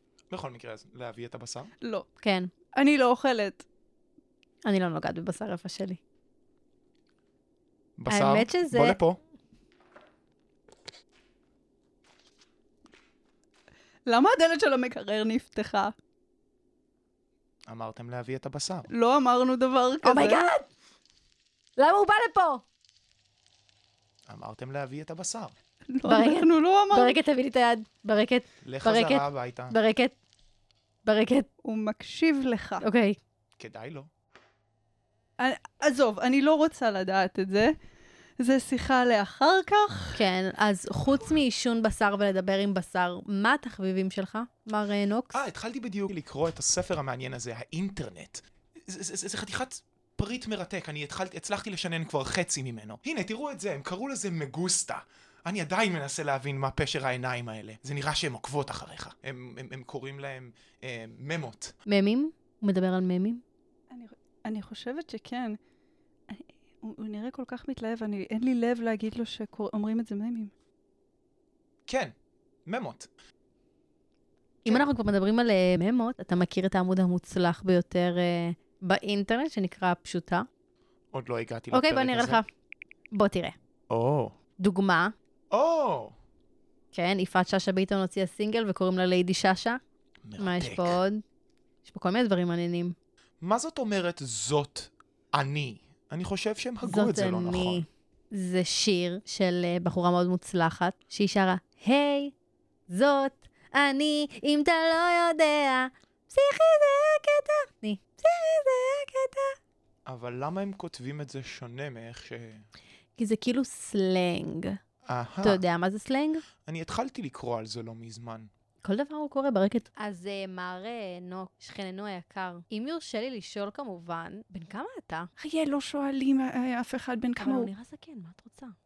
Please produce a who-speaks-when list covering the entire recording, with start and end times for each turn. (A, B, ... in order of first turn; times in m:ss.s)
0:00.3-0:01.7 A
0:02.2-0:02.5 B
0:02.7-0:03.6 C
0:04.6-0:06.0 B
0:08.0-0:09.2 A
0:08.1-0:09.0 B
0:14.1-0:15.9 C
0:17.7-0:18.9 A
0:18.9-0:20.4 C
0:20.0-0:20.6 B
0:21.8-0:22.6 B
0:24.3-0:25.5 A
0:25.9-0:27.1 C
0:26.0-0:30.1 B
0:28.6-0:29.8 A
0:31.0-0:31.5 B
0:31.6-0:32.8 C
0:32.8-0:33.2 B
0:33.6-0:34.1 A
0:35.4-0:37.7 C
0:38.4-0:40.2 C
0:40.1-0:45.4 B
0:45.3-1:01.7 A
1:01.9-1:03.4 B
1:03.9-1:05.6 C
1:06.3-1:10.5 C
1:11.9-1:12.1 A
1:12.6-1:13.1 A
1:14.6-1:20.5 B
1:21.1-1:22.4 A
1:21.7-1:22.5 B
1:23.1-1:23.6 B
1:23.9-1:24.3 A
1:24.6-1:25.1 B
1:25.5-1:26.1 A
1:26.9-1:29.8 B
1:30.2-1:31.0 A
1:30.4-1:31.2 B
1:31.8-1:33.0 B
1:33.4-1:37.8 A
1:36.8-1:42.3 B
1:42.9-1:49.5 B
1:50.0-1:52.6 A
1:53.2-1:54.8 B
1:55.0-1:55.6 A
1:55.4-1:56.4 B
1:56.6-1:58.5 A
1:58.8-2:05.3 B
2:05.4-2:07.7 C
2:07.4-2:08.8 B